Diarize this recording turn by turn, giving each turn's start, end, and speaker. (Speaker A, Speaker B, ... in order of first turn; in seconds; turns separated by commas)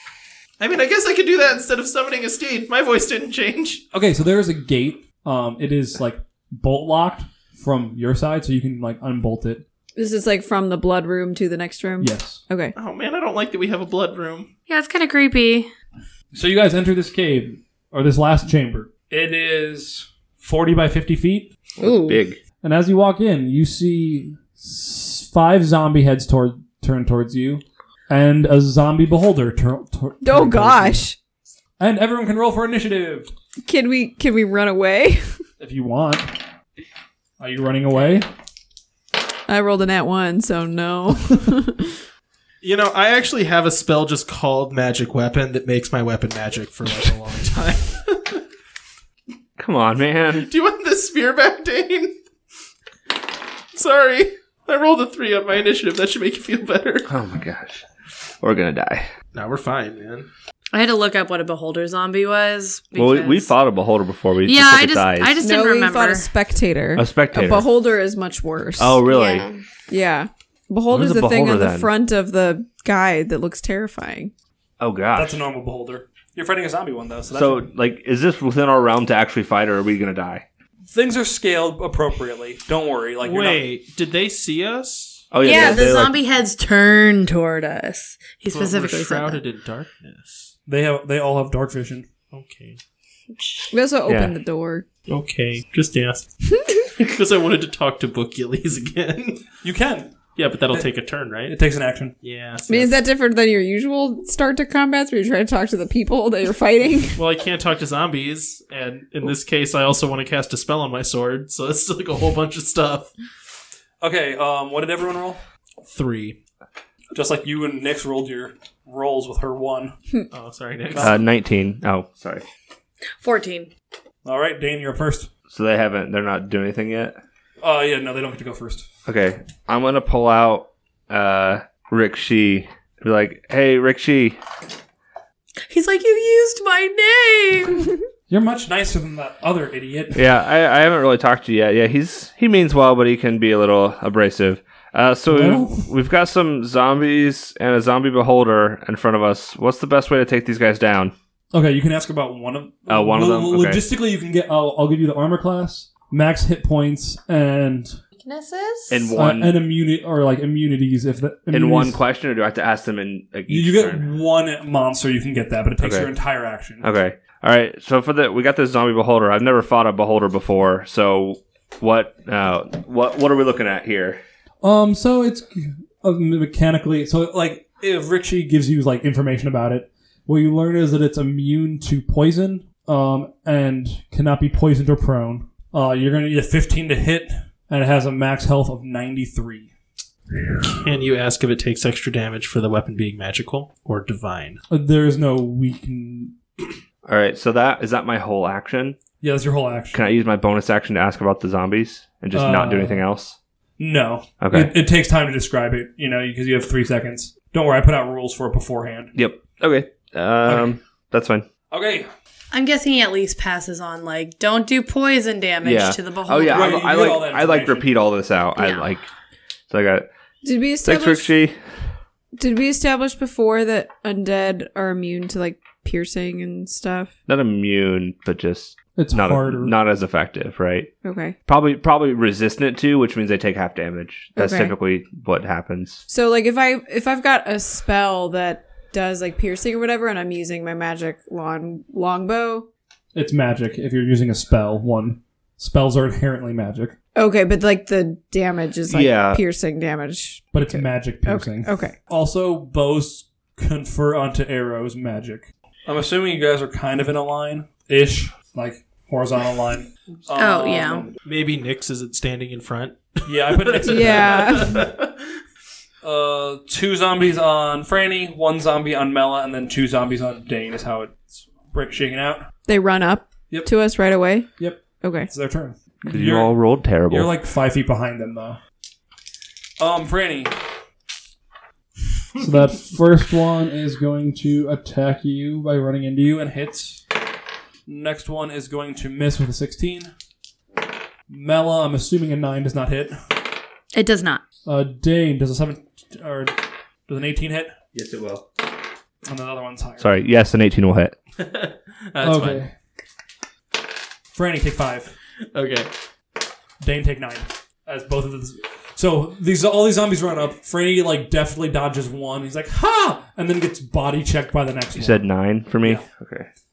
Speaker A: 0.6-3.8, Speaker B: 3.9-9.6, Speaker C: 10.0-12.7, Speaker B: 12.0-12.4, Speaker A: 12.8-14.5, Speaker D: 14.7-15.7, Speaker B: 16.3-21.5, Speaker E: 21.8-22.4, Speaker D: 21.8-22.2, Speaker B: 22.6-31.1, Speaker C: 30.2-31.2, Speaker B: 31.8-33.3, Speaker C: 33.7-35.4, Speaker B: 35.6-36.4, Speaker B: 37.4-38.3, Speaker C: 39.5-41.9, Speaker A: 42.6-48.4, Speaker E: 49.6-50.5, Speaker A: 50.4-52.2, Speaker A: 53.7-57.1, Speaker E: 57.1-57.8, Speaker E: 58.4-59.1, Speaker A: 59.3-60.3, Speaker D: 60.7-63.5, Speaker E: 63.0-65.4, Speaker D: 64.5-66.3, Speaker C: 65.4-69.0, Speaker E: 67.0-67.7, Speaker E: 68.8-69.5, Speaker D: 69.0-69.6, Speaker C: 69.9-74.3, Speaker E: 70.9-71.9, Speaker E: 74.8-75.4, Speaker B: 75.1-77.7, Speaker E: 77.3-80.4, Speaker B: 80.9-83.6, Speaker A: 83.2-85.6, Speaker E: 85.3-86.2, Speaker D: 85.4-89.4, Speaker A: 88.5-90.5, Speaker B: 90.7-92.1, Speaker A: 92.3-92.8, Speaker C: 93.7-94.9, Speaker E: 94.1-94.3, Speaker A: 95.1-96.3, Speaker A: 97.0-99.5, Speaker B: 99.6-100.2, Speaker A: 100.4-101.5, Speaker B: 101.5-102.2, Speaker A: 102.2-103.0, Speaker C: 102.7-107.2, Speaker A: 107.2-113.1, Speaker B: 114.0-115.4, Speaker A: 115.9-116.4, Speaker B: 117.1-120.0, Speaker A: 120.3-121.2, Speaker B: 120.9-121.2, Speaker E: 121.0-122.4, Speaker D: 123.2-123.7, Speaker B: 124.2-125.3, Speaker E: 125.5-127.2, Speaker B: 127.6-128.9, Speaker E: 129.1-134.4, Speaker D: 135.7-137.9, Speaker B: 138.3-140.2, Speaker E: 140.1-151.1, Speaker B: 145.3-145.9, Speaker B: 151.5-158.0, Speaker E: 152.9-153.8, Speaker D: 158.2-159.1, Speaker E: 158.9-159.6, Speaker B: 159.2-162.0, Speaker E: 161.5-164.1, Speaker B: 163.5-166.9, Speaker E: 165.8-166.1, Speaker E: 166.8-174.2, Speaker B: 174.6-189.7, Speaker A: 190.6-194.6, Speaker B: 194.7-196.4, Speaker E: 197.1-199.0, Speaker B: 199.2-200.0, Speaker E: 199.9-203.4, Speaker B: 202.3-203.0, Speaker B: 203.8-209.1, Speaker E: 204.4-204.7, Speaker E: 209.2-211.5, Speaker B: 210.5-210.8, Speaker B: 211.7-212.1, Speaker D: 212.5-216.8, Speaker E: 215.6-219.0, Speaker B: 216.5-217.9, Speaker D: 218.6-219.0, Speaker E: 219.7-220.1, Speaker C: 220.4-221.3, Speaker E: 220.8-221.6, Speaker C: 222.4-227.1, Speaker E: 227.3-230.9, Speaker B: 229.0-229.8, Speaker C: 231.0-231.3, Speaker E: 231.5-236.0, Speaker C: 234.4-234.7, Speaker C: 236.1-242.7, Speaker B: 243.1-247.0, Speaker C: 247.2-252.0, Speaker E: 248.9-249.4, Speaker B: 250.5-261.2, Speaker D: 260.4-261.1, Speaker A: 261.2-265.4, Speaker B: 263.3-264.7, Speaker C: 263.9-264.8, Speaker B: 266.0-272.5, Speaker C: 272.7-275.3, Speaker B: 274.6-276.6, Speaker E: 276.0-277.3, Speaker B: 277.1-278.6, Speaker B: 279.8-280.5, Speaker B: 282.4-287.0, Speaker B: 287.9-290.1, Speaker B: 291.3-293.2, Speaker D: 293.9-294.4, Speaker B: 294.6-297.8, Speaker E: 297.9-298.5, Speaker B: 299.2-300.1, Speaker E: 300.0-301.2, Speaker A: 301.4-302.6, Speaker B: 302.2-302.7, Speaker B: 304.3-305.2, Speaker A: 305.5-305.9, Speaker B: 306.8-315.3, Speaker E: 314.9-316.5